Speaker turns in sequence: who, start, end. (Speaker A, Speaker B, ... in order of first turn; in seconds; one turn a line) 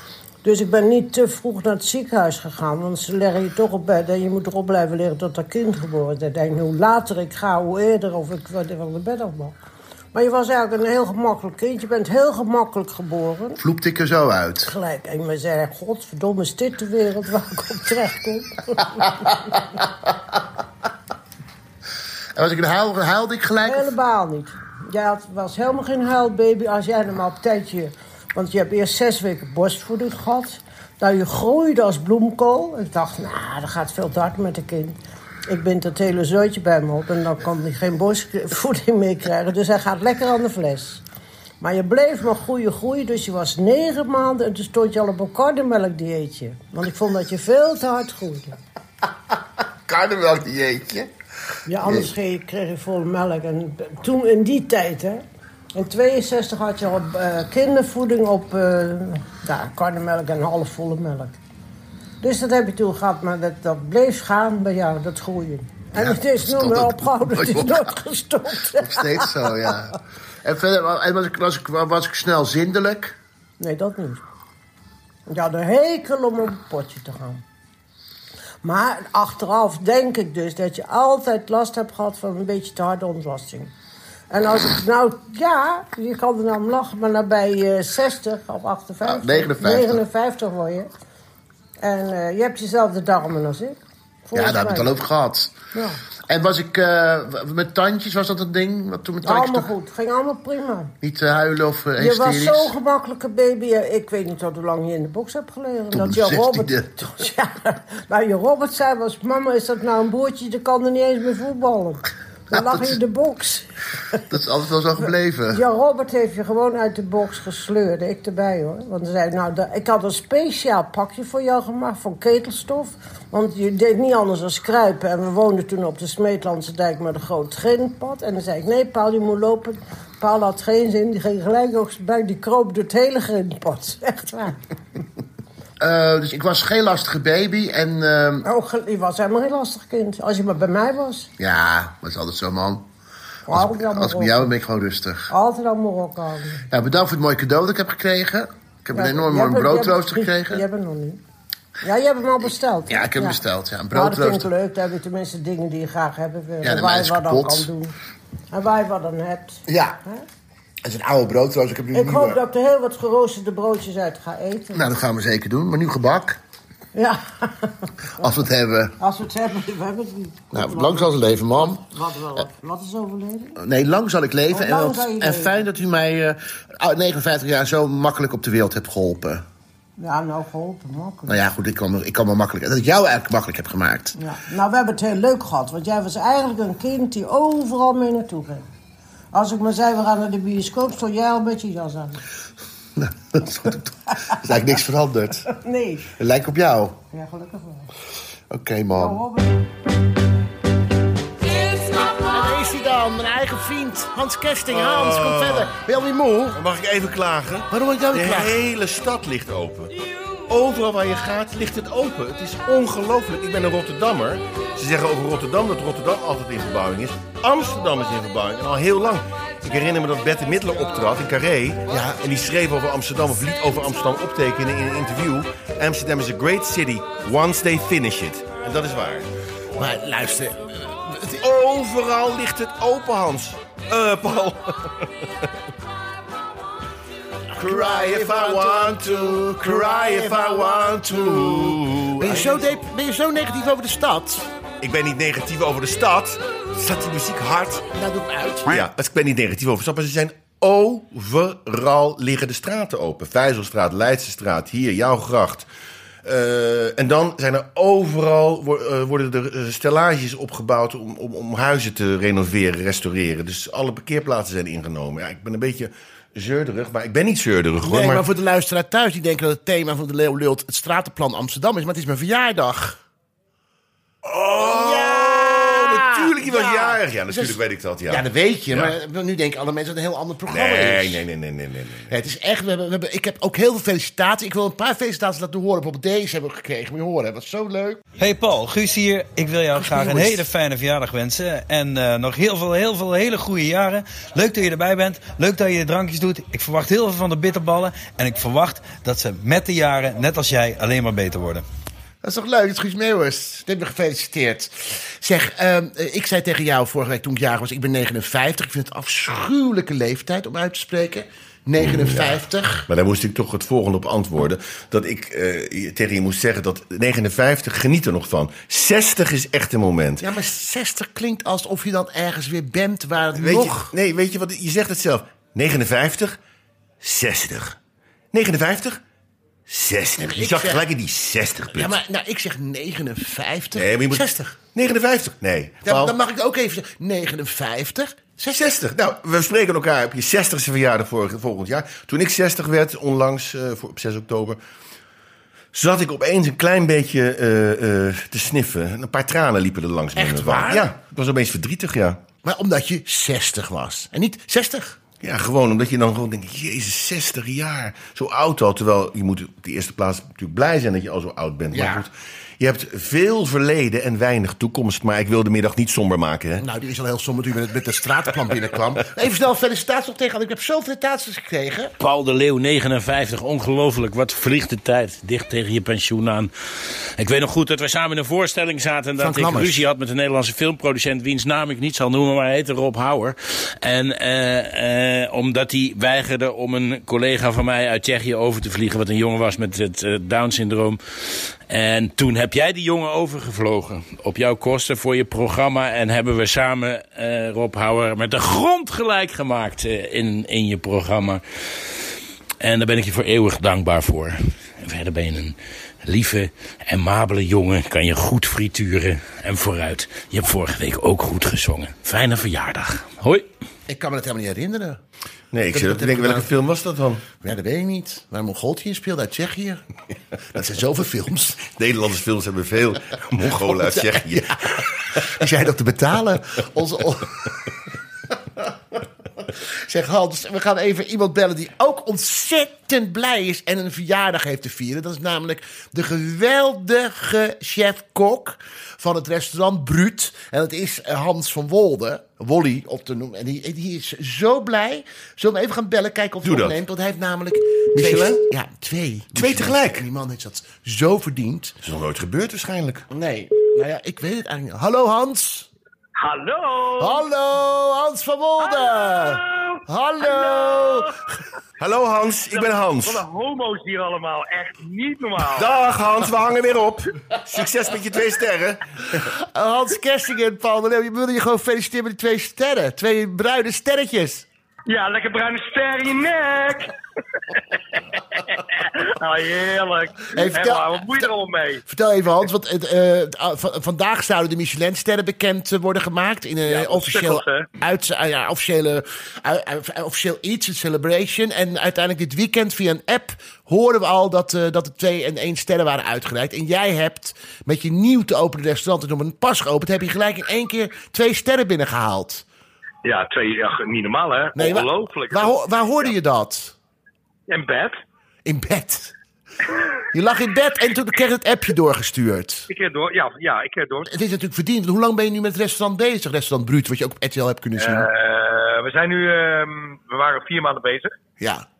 Speaker A: 0.4-9.6
Speaker A: 10.1-13.6
Speaker B: 13.6-14.7
Speaker A: 14.6-19.6
Speaker B: 22.3-23.9
Speaker A: 23.6-35.0
Speaker A: 35.5-41.0
Speaker A: 41.6-48.6
Speaker B: 49.9-51.1
Speaker A: 51.7-55.2
Speaker B: 51.8-52.1
Speaker A: 55.7-61.4
Speaker A: 62.2-69.7
Speaker B: 65.9-67.9
Speaker B: 68.8-73.2
Speaker A: 73.6-74.2
Speaker A: 75.3-77.4
Speaker A: 78.6-83.7
Speaker A: 84.3-90.9
Speaker B: 89.0-90.0
Speaker A: 91.8-94.9
Speaker B: 94.3-95.5
Speaker A: 95.7-96.0
Speaker B: 96.3-99.7
Speaker A: 99.2-100.9
Speaker B: 101.0-102.7
Speaker A: 102.0-113.7
Speaker B: 105.9-106.9
Speaker B: 112.5-113.0
Speaker B: 114.3-115.6
Speaker A: 115.5-134.6
Speaker B: 135.8-138.5
Speaker A: 138.4-141.3
Speaker B: 141.4-142.8
Speaker A: 143.5-144.5
Speaker B: 143.5-145.3
Speaker A: 145.3-146.7
Speaker B: 146.7-150.6
Speaker A: 148.9-151.2
Speaker A: 151.8-153.4
Speaker B: 152.9-154.5
Speaker A: 153.9-157.9
Speaker B: 156.6-157.7
Speaker A: 158.5-160.2
Speaker B: 159.7-160.0
Speaker B: 160.8-162.4
Speaker A: 161.9-164.9
Speaker B: 164.7-166.4
Speaker A: 166.9-167.7
Speaker B: 168.2-168.9
Speaker A: 169.0-173.6
Speaker B: 170.5-171.8
Speaker B: 173.6-179.4
Speaker A: 174.5-175.6
Speaker A: 180.0-181.4
Speaker B: 181.3-184.1
Speaker A: 184.2-188.7
Speaker A: 189.3-192.2
Speaker B: 192.9-195.5
Speaker A: 195.5-196.1
Speaker B: 196.1-197.0
Speaker A: 197.1-197.9
Speaker B: 198.5-199.2
Speaker A: 198.9-199.6
Speaker B: 201.6-206.6
Speaker C: 204.7-205.7
Speaker C: 206.5-209.9
Speaker B: 207.7-208.6
Speaker C: 210.5-229.3
Speaker B: 221.9-222.2
Speaker B: 229.8-231.4
Speaker C: 231.4-235.1
Speaker B: 237.5-244.5
Speaker C: 237.6-242.7
Speaker C: 244.8-247.9
Speaker B: 247.9-248.8
Speaker C: 248.7-255.7
Speaker C: 256.2-268.2
Speaker B: 267.8-273.0
Speaker C: 274.2-278.9
Speaker B: 274.5-281.2
Speaker C: 280.5-282.1
Speaker B: 282.1-288.0
Speaker D: 288.2-301.6
Speaker B: 289.8-290.4
Speaker B: 302.2-312.9
Speaker C: 311.8-312.3
Speaker C: 312.9-320.2
Speaker B: 320.2-323.9
Speaker C: 323.4-326.4
Speaker C: 327.0-327.8
Speaker C: 328.3-329.0
Speaker C: 329.7-331.9
Speaker B: 330.2-330.8
Speaker B: 331.7-334.6
Speaker C: 333.7-336.1
Speaker B: 335.8-338.7
Speaker C: 338.5-344.6
Speaker C: 345.7-352.2
Speaker B: 350.1-350.9
Speaker B: 352.4-355.0
Speaker C: 355.2-366.6
Speaker B: 361.7-362.1
Speaker B: 366.6-371.9
Speaker E: 372.0-402.1
Speaker B: 379.2-379.9
Speaker E: 402.6-413.4
Speaker B: 413.9-415.0
Speaker C: 415.5-417.2
Speaker B: 415.7-416.5
Speaker B: 417.4-419.8
Speaker B: 420.5-421.7
Speaker C: 421.7-425.0
Speaker B: 423.4-427.6
Speaker B: 429.6-451.8
Speaker C: 446.4-446.7
Speaker C: 447.9-448.4
Speaker C: 449.3-450.0
Speaker C: 451.8-453.1
Speaker B: 453.1-455.7
Speaker F: 456.2-457.2
Speaker B: 457.0-461.2
Speaker F: 458.6-461.2
Speaker C: 461.8-463.2
Speaker F: 462.5-465.7
Speaker C: 465.4-468.8
Speaker B: 469.3-474.4
Speaker F: 474.9-476.9
Speaker F: 477.5-481.8
Speaker B: 480.3-481.3
Speaker B: 481.9-502.4
Speaker F: 486.6-487.7
Speaker F: 503.0-506.1
Speaker B: 504.6-506.7
Speaker F: 507.5-508.0
Speaker B: 508.4-509.1
Speaker B: 510.1-512.7
Speaker F: 512.7-514.1
Speaker B: 514.1-518.1
Speaker F: 517.8-521.1
Speaker B: 521.4-521.6